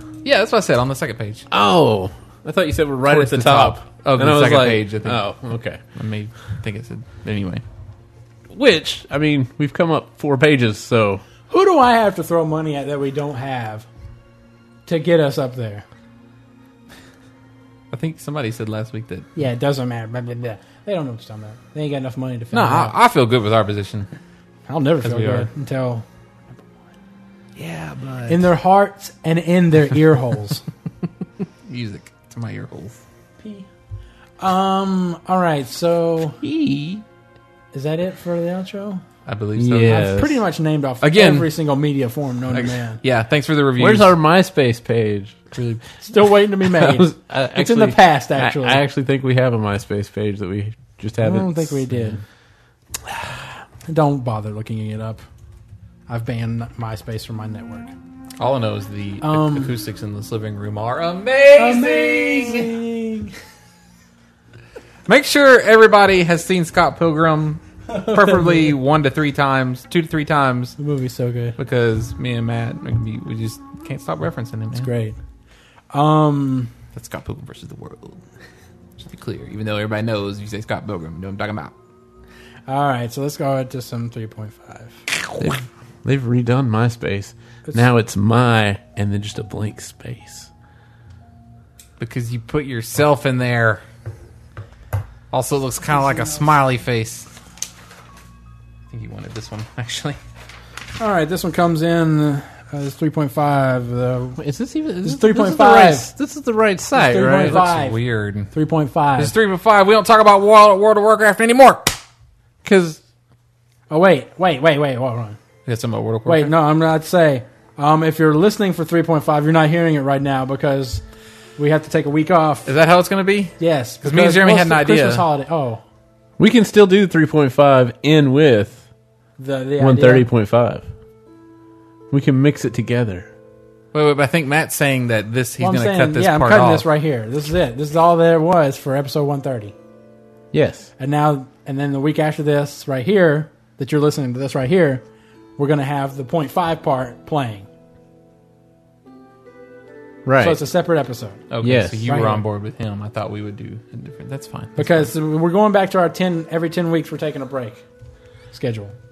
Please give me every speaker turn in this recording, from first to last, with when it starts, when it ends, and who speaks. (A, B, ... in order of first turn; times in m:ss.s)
0:00.2-0:01.4 A
0:01.5-0:05.8 B
0:03.1-0:05.2 A
0:05.9-0:07.6 A
0:08.5-0:11.2 B
0:11.5-0:13.9 C
0:14.9-0:15.8 C
0:17.9-0:19.3 A
0:19.4-0:23.0 C
0:22.5-0:24.1 A
0:24.7-0:26.0 C
0:25.0-0:25.5 A
0:27.6-0:28.5 A
0:28.3-0:30.6 C
0:31.7-0:33.0 A
0:33.4-0:33.7 C
0:34.4-0:36.4 C
0:36.4-0:37.0 A
0:37.7-0:39.0 C
0:39.2-0:40.0 A
0:39.6-0:40.4 B
0:39.8-0:43.0 C
0:41.0-0:41.5 A
0:42.5-0:44.1 A
0:43.8-0:45.5 B
0:45.5-0:45.8 A
0:46.0-0:48.8 C
0:46.6-0:52.1 B
0:51.2-0:52.2 C
0:53.9-0:55.2 C
0:56.1-0:57.9 C
0:58.4-1:02.8 A
0:59.2-0:59.7 C
1:01.6-1:03.3 C
1:05.1-1:10.8 A
1:07.9-1:08.8 C
1:10.8-1:11.6 C
1:11.6-1:14.9 A
1:14.7-1:15.2 C
1:15.9-1:16.7 C
1:16.9-1:18.2 A
1:19.0-1:21.7 A
1:22.7-1:25.1 C
1:25.4-1:30.5 B
1:32.0-1:33.8 A
1:35.3-1:37.3 A
1:38.9-1:40.2 A
1:41.0-1:44.4 C
1:44.4-1:47.6 B
1:45.0-1:46.1 C
1:46.9-1:49.3 C
1:47.4-1:48.5 A
1:49.2-1:52.0 A
1:52.6-1:53.0 B
1:53.9-1:55.4 C
1:55.6-1:56.5 A
1:56.2-2:01.0 C
2:01.6-2:02.7 C
2:02.6-2:05.2 A
2:03.6-2:05.8 C
2:06.4-2:08.8 B
2:09.4-2:10.3 C
2:09.8-2:10.8 B
2:12.1-2:13.3 B
2:13.9-2:16.8 A
2:15.6-2:19.7 C
2:20.5-2:20.9 B
2:21.0-2:25.0 C
2:25.6-2:27.7 C
2:30.2-2:30.6 B
2:30.4-2:31.4 C
2:31.5-2:35.1 A
2:31.6-2:32.1 B
2:32.0-2:32.4 C
2:34.8-2:37.8 C
2:38.5-2:38.9 C